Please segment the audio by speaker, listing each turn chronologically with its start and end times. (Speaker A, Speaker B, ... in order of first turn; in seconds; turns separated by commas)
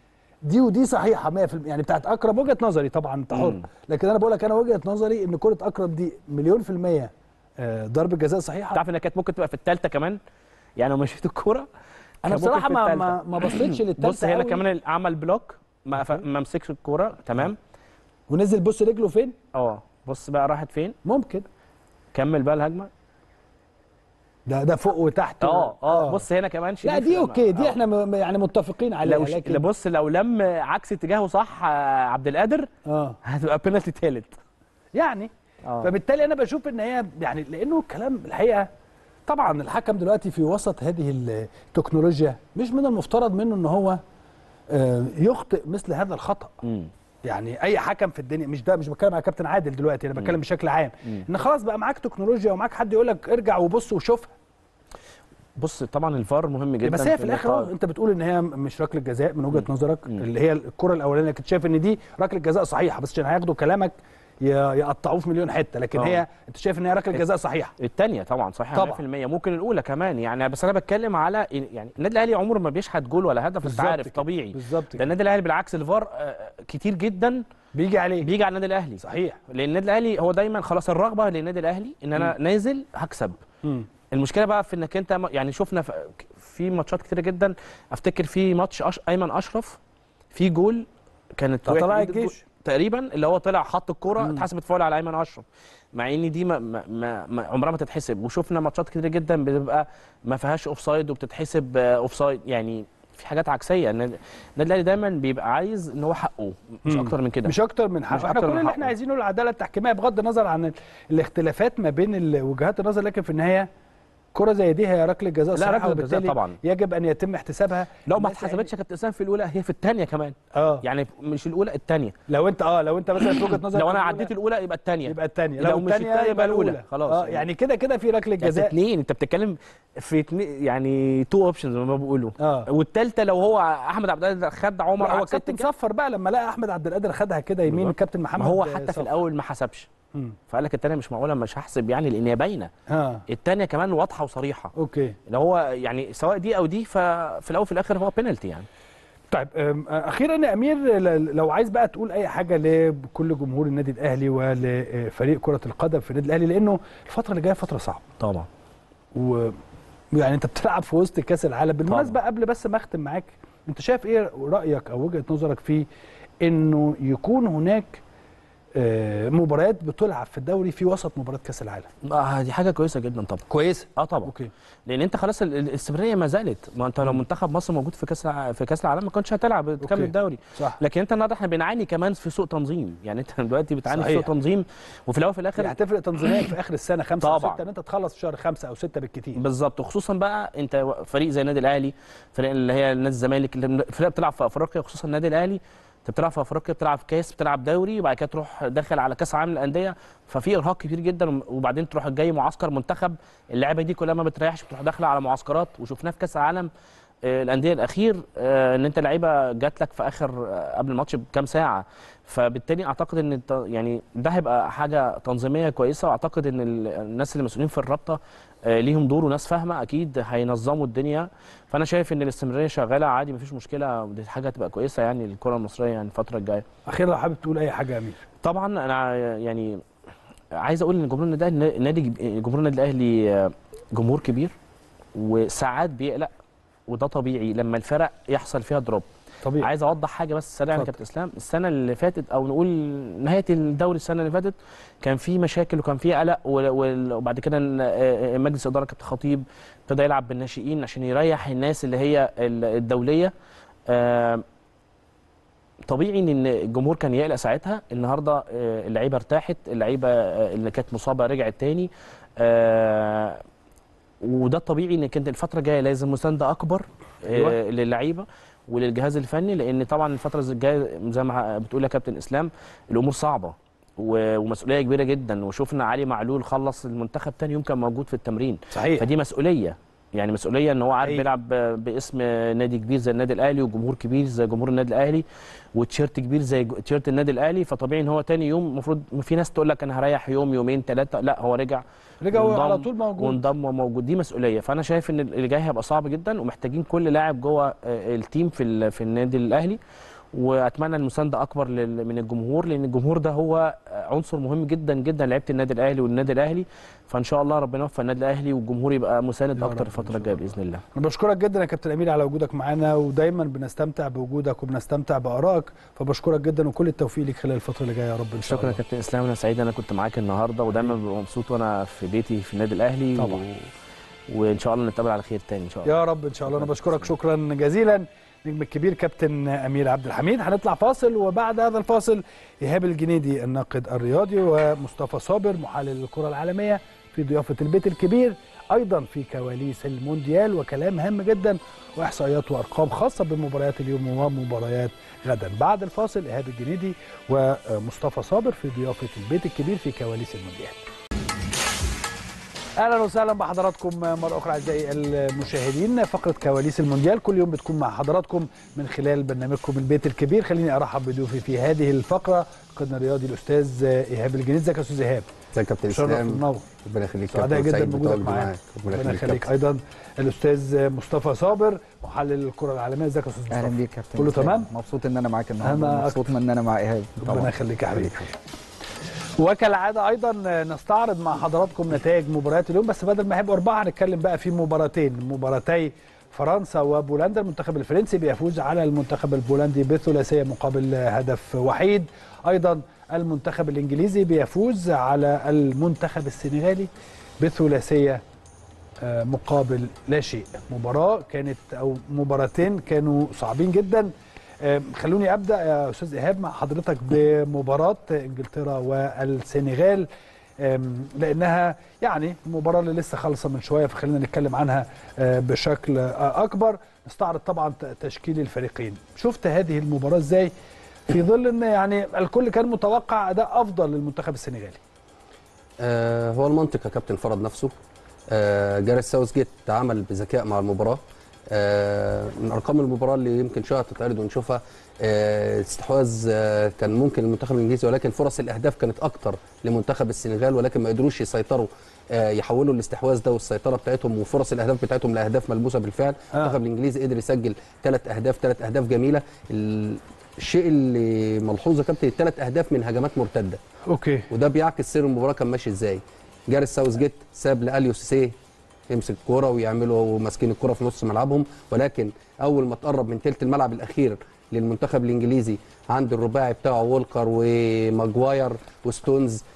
Speaker A: 0.4-8.8, Speaker B: 3.3-3.7, Speaker B: 8.7-10.2, Speaker B: 10.8-11.7, Speaker A: 12.2-14.6, Speaker B: 12.2-17.6, Speaker A: 16.0-16.2, Speaker A: 18.3-19.4, Speaker B: 19.5-21.0, Speaker A: 21.1-21.4, Speaker B: 22.1-22.9, Speaker A: 24.5-26.2, Speaker B: 25.4-27.8, Speaker A: 26.8-29.6, Speaker B: 29.1-32.7, Speaker A: 32.9-33.2, Speaker B: 33.2-34.4, Speaker A: 35.0-38.7, Speaker B: 35.6-35.9, Speaker A: 39.3-44.0, Speaker A: 44.7-46.6, Speaker B: 46.6-46.9, Speaker A: 47.3-54.3, Speaker B: 55.6-57.7, Speaker A: 56.8-67.7, Speaker B: 59.5-60.3, Speaker B: 66.0-66.2, Speaker B: 67.8-77.4, Speaker A: 68.7-69.0, Speaker A: 73.6-75.1, Speaker A: 77.7-78.3, Speaker B: 78.2-83.4, Speaker A: 79.0-79.4, Speaker B: 84.1-89.8, Speaker B: 90.3-90.9, Speaker B: 91.4-107.5, Speaker A: 91.7-92.4, Speaker A: 94.2-94.5, Speaker A: 106.9-113.7, Speaker B: 108.1-108.9, Speaker A: 114.3-118.7, Speaker B: 115.5-116.6, Speaker B: 118.1-122.2, Speaker A: 120.5-120.8, Speaker A: 122.3-124.3, Speaker B: 123.2-127.5, Speaker A: 125.1-128.7, Speaker B: 128.4-135.7, Speaker A: 132.4-132.7, Speaker A: 135.0-139.2, Speaker B: 137.7-139.9, Speaker B: 140.5-142.7, Speaker A: 142.9-143.2, Speaker B: 143.3-144.7, Speaker A: 144.8-145.2, Speaker B: 145.3-148.7, Speaker A: 149.3-158.0, Speaker B: 158.2-158.5, Speaker A: 159.1-159.6, Speaker A: 160.1-165.9, Speaker B: 161.9-162.2, Speaker A: 166.4-168.0, Speaker A: 168.8-171.9, Speaker B: 172.0-173.4, Speaker A: 173.5-174.5, Speaker B: 174.0-174.3, Speaker B: 174.9-185.8, Speaker A: 179.8-180.8, Speaker A: 183.9-184.3, Speaker A: 185.6-189.4, Speaker B: 187.2-187.6, Speaker B: 189.4-206.7, Speaker B: 207.2-226.7, Speaker A: 226.9-228.2, Speaker B: 228.4-229.8, Speaker B: 230.5-234.5, Speaker B: 235.2-236.3, Speaker B: 236.9-239.1, Speaker A: 239.4-239.7, Speaker B: 239.6-253.3, Speaker B: 253.9-254.4, Speaker B: 255.9-263.4, Speaker B: 264.2-285.2, Speaker A: 267.2-267.6, Speaker A: 278.7-279.1, Speaker B: 285.8-299.8, Speaker A: 292.2-293.4, Speaker B: 300.3-310.8, Speaker A: 309.6-318.8, Speaker B: 318.4-323.7, Speaker A: 323.2-323.4, Speaker B: 324.3-327.1, Speaker A: 325.9-350.8, Speaker A: 352.8-365.3, Speaker C: 365.5-369.5, Speaker A: 365.9-366.7, Speaker A: 367.3-374.7, Speaker D: 373.5-378.3, Speaker A: 375.6-376.3, Speaker A: 377.2-378.3, Speaker A: 379.4-396.9, Speaker A: 397.4-398.2, Speaker A: 399.0-410.1, Speaker A: 410.6-420.5, Speaker A: 421.1-424.8, Speaker C: 425.8-427.7, Speaker C: 428.3-453.6, Speaker A: 453.9-454.3, Speaker C: 454.3-458.3, Speaker C: 458.9-469.4